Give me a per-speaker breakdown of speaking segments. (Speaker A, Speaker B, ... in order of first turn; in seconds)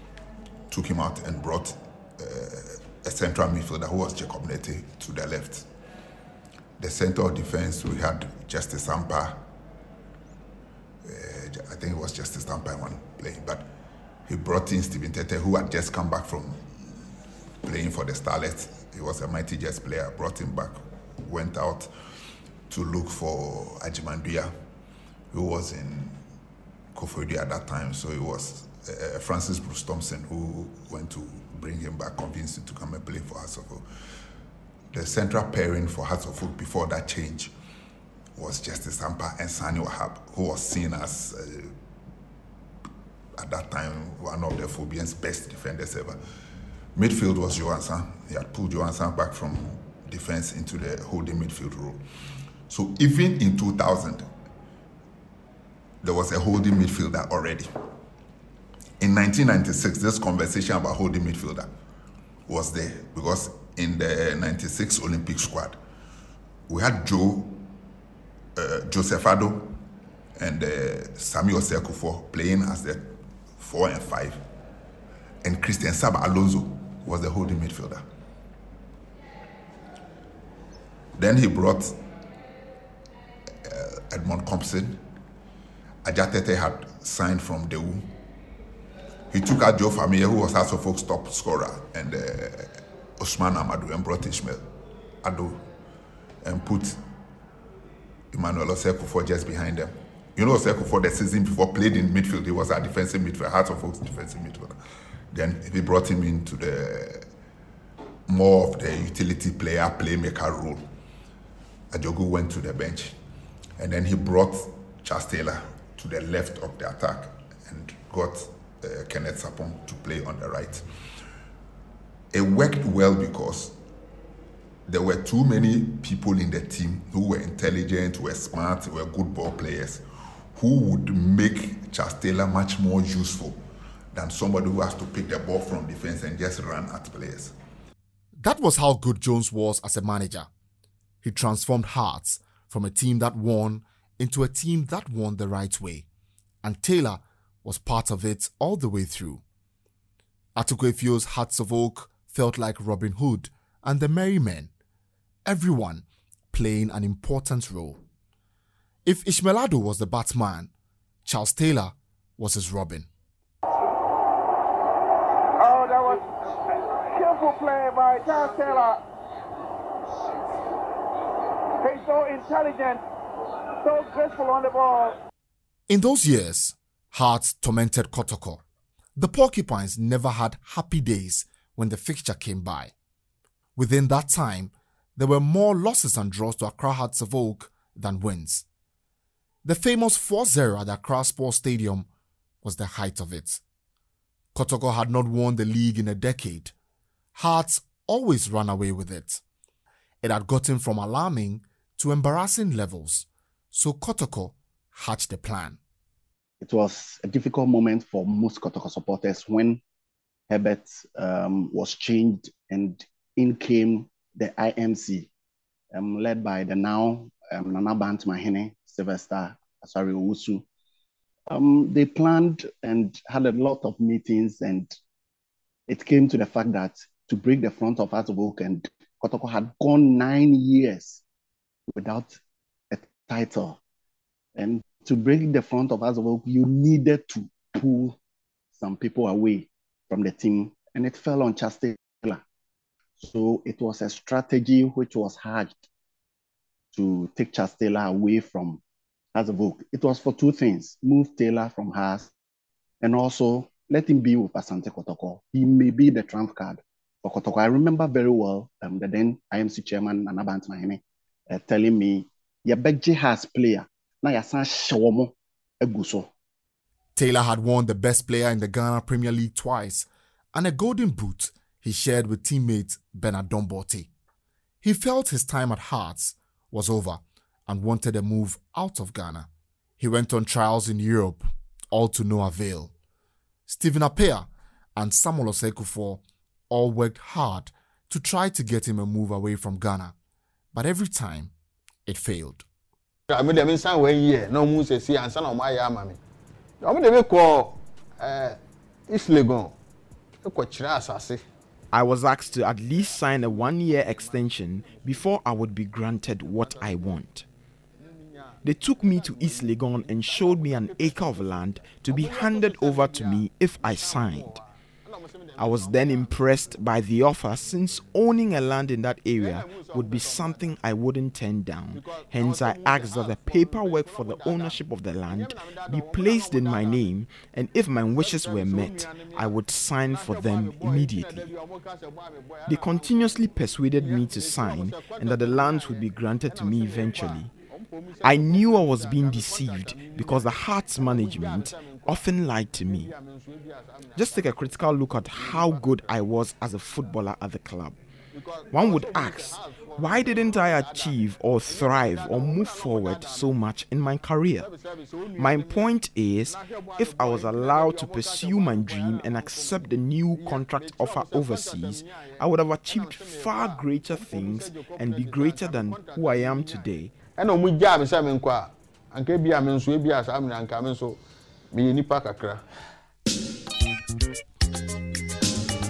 Speaker A: 0.7-5.7, 6.8-9.4, 11.0-13.7, 14.3-17.0, 17.6-21.9, 22.7-24.5, 25.3-26.2, 26.9-33.9, 34.9-37.5, 38.4-41.7, 43.4-46.2, 47.0-52.0, 52.7-54.3, 56.0-57.7, 59.0-61.7, 62.5-65.8, 66.7-67.6, 68.5-69.8, 70.4-74.4, 75.4-78.0, 81.2-82.0, 83.6-85.0, 86.0-88.1, 89.3-94.6, 95.2-95.6, 96.4-97.0, 98.3-104.8, 105.3-107.3, 108.3-110.8, 111.9-113.1, 113.8-120.8, 122.3-123.8, 124.9-133.6, 134.1-137.5
Speaker B: 138.4-140.5, 141.2-146.1, 146.6-149.4, 150.6-154.7, 155.4-158.0, 159.0-160.7, 161.2-163.1, 175.9-178.6, 179.2-182.9, 183.8-188.6, 189.6-192.1, 192.6-193.6, 194.5-196.7, 197.3-199.4, 200.2-205.8, 267.1-274.1, 274.8-279.5, 280.0-282.9, 283.7-290.1, 290.7-291.5, 292.1-292.6
Speaker C: 165.6-169.0, 171.8-173.0, 173.8-175.2
Speaker D: 206.6-209.8, 210.5-215.3, 215.9-220.6, 221.5-224.9, 225.9-231.2, 231.9-232.4, 232.9-233.8, 234.6-238.2, 238.8-242.4, 243.2-245.8, 246.9-248.8, 249.3-252.3, 253.0-266.3
Speaker E: 293.3-296.2, 296.8-299.7, 300.4-301.4, 308.0-308.5, 309.2-316.4, 319.4-320.6, 321.9-327.0, 328.2-329.4, 330.1-333.1, 334.0-342.2, 342.9-344.1, 345.4-345.8, 348.3-353.5, 354.6-355.8, 356.5-359.8, 360.4-371.2, 371.7-372.6
Speaker F: 301.9-307.4, 308.6-314.6, 315.6-331.5, 332.6-337.5, 338.2-343.1, 344.1-347.9, 348.7-354.7, 355.4-367.2